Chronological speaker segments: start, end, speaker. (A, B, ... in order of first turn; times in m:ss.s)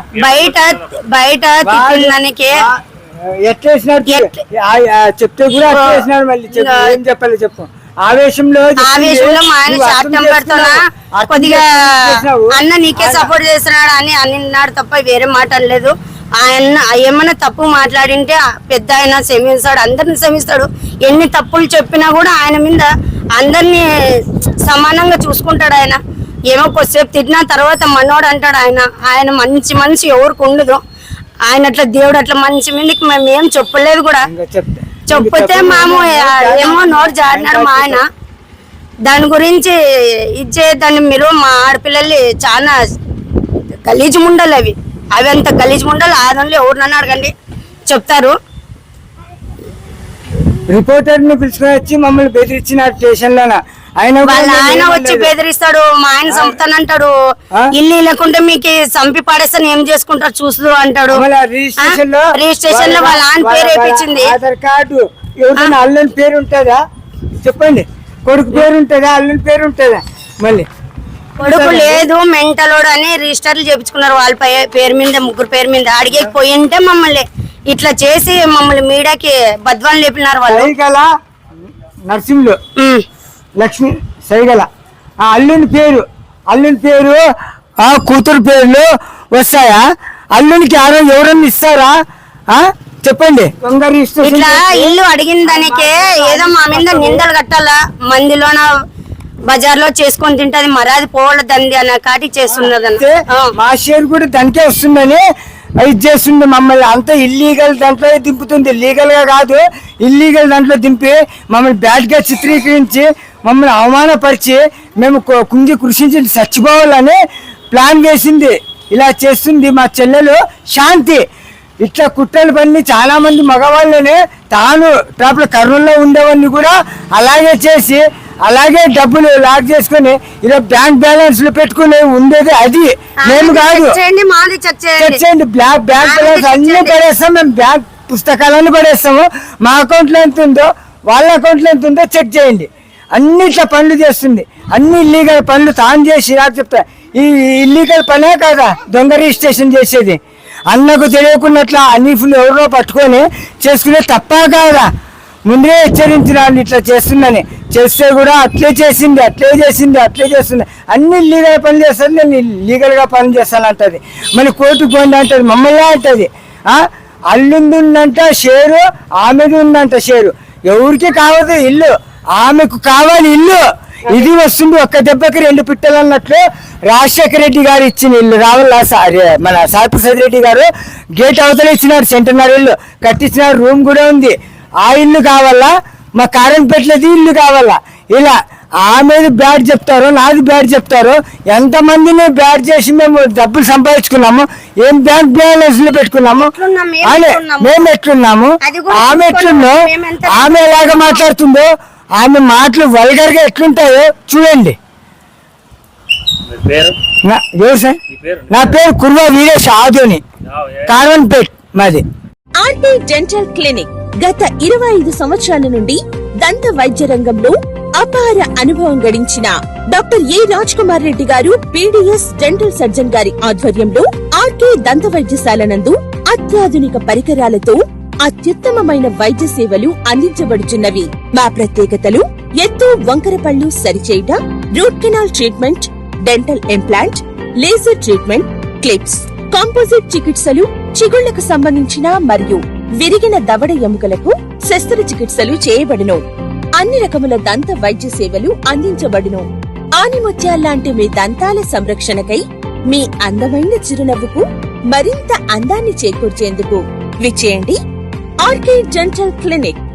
0:00.2-0:01.0 A
0:00.2-0:02.6 B
0:01.6-0:13.3 C
0:04.1-0:04.4 B
0:05.7-0:07.0 B
0:08.8-0:11.9 B
0:12.5-0:23.9 B
0:24.6-0:30.8 B
0:31.5-0:34.3 B
0:34.3-0:38.0 C
0:35.1-0:38.0 B
0:39.1-0:39.8 B
0:40.4-0:42.8 B
0:43.8-0:47.3 B
0:47.9-0:48.3 B
0:50.7-0:55.3 C
0:54.2-0:57.1 B
0:56.3-0:56.6 C
0:57.8-1:01.2 B
1:01.1-1:06.8 C
1:01.8-1:04.3 B
1:07.4-1:10.7 C
1:11.4-1:12.0 C
1:11.4-1:20.7 B
1:20.5-1:21.1 C
1:21.6-1:22.6 C
1:22.8-1:23.0 B
1:23.6-1:24.7 C
1:25.2-1:27.2 C
1:27.8-1:32.0 C
1:32.5-1:37.2 C
1:34.2-1:38.7 B
1:39.5-1:43.5 B
1:42.5-1:45.2 C
1:45.8-1:57.2 C
1:57.7-2:01.2 C
2:01.8-2:14.0 C
2:13.2-2:15.2 B
2:15.0-2:34.9 C
2:16.0-2:17.0 B
2:35.5-3:16.5 C
3:16.3-3:17.8 B
3:17.0-3:24.8 C
3:18.6-3:21.2 B
3:26.5-3:27.0 A
3:27.2-3:28.0 C
3:28.1-3:28.8 A
3:28.5-3:30.2 C
3:30.5-3:31.0 A
3:30.9-3:32.0 C
3:32.6-4:06.2 D
4:06.8-4:09.4 D
4:10.0-4:17.8 D
4:18.4-4:19.8 D